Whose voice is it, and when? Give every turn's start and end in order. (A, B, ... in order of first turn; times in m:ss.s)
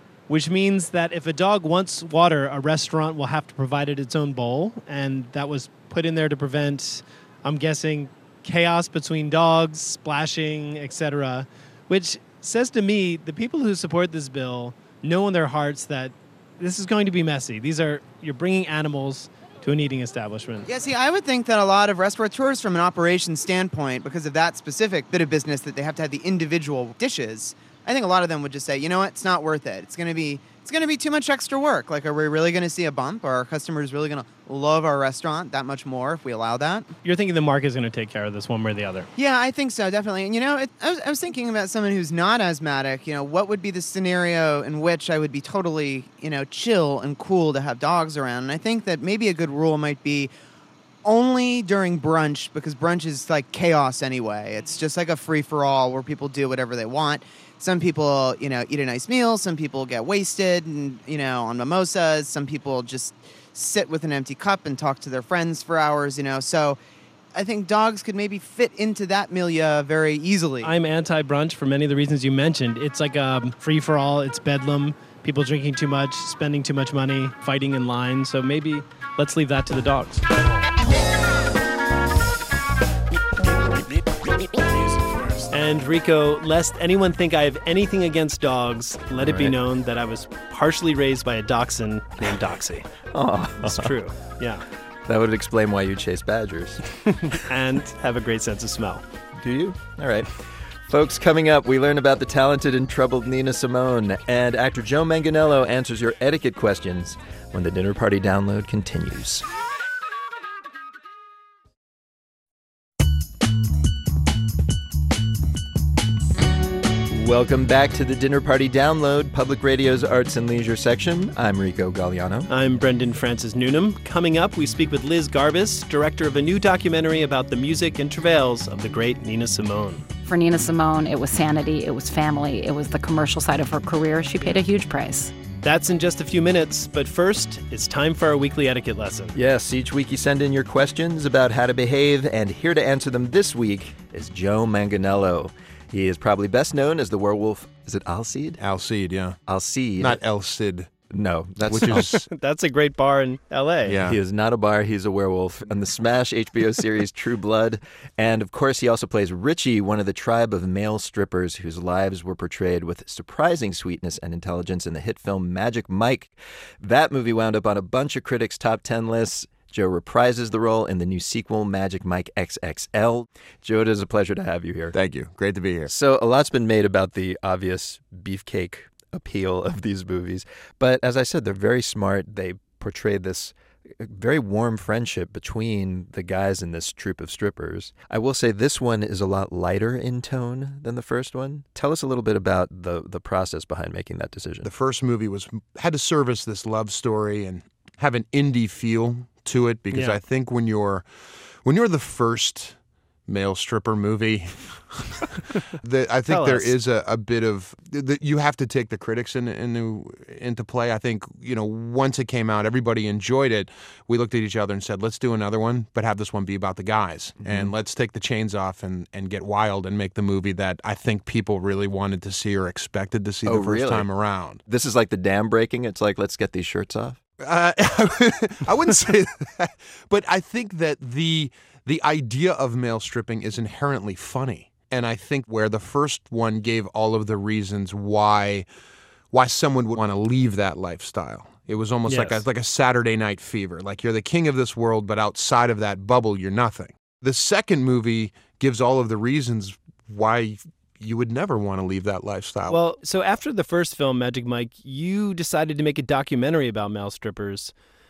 0:00.3-0:20.7 A
0:20.7-0:36.9 B
0:37.0-0:39.1 A
0:39.2-0:50.3 B
0:51.0-1:06.8 B
1:07.4-1:10.7 B
1:10.6-1:20.2 A
1:25.5-1:32.9 A
1:29.2-1:29.6 C
1:33.1-1:33.9 C
1:33.6-1:34.6 A
1:35.1-1:36.8 C
1:37.2-1:39.0 A
1:39.4-1:49.4 C
1:57.1-2:02.5 C
2:02.5-2:10.0 A
2:10.3-2:15.3 D
2:15.6-2:19.4 A
2:19.4-2:28.6 C
2:28.6-2:29.4 E
2:29.5-2:30.2 C
2:30.0-2:30.9 E
2:31.1-2:32.1 C
2:31.6-2:32.3 E
2:31.9-2:34.0 A
2:33.9-2:34.2 E
2:34.0-2:55.0 C
2:54.9-2:55.9 E
2:55.9-3:14.7 C
3:14.6-3:21.1 E
3:19.9-3:20.2 A
3:21.6-3:44.6 E
3:26.3-3:26.7 A
3:37.4-3:37.7 C
3:43.4-3:44.1 C
3:44.6-3:47.2 C
3:47.4-3:58.7 E
3:59.3-4:12.8 E
4:02.1-4:02.4 A
4:12.7-4:17.7 A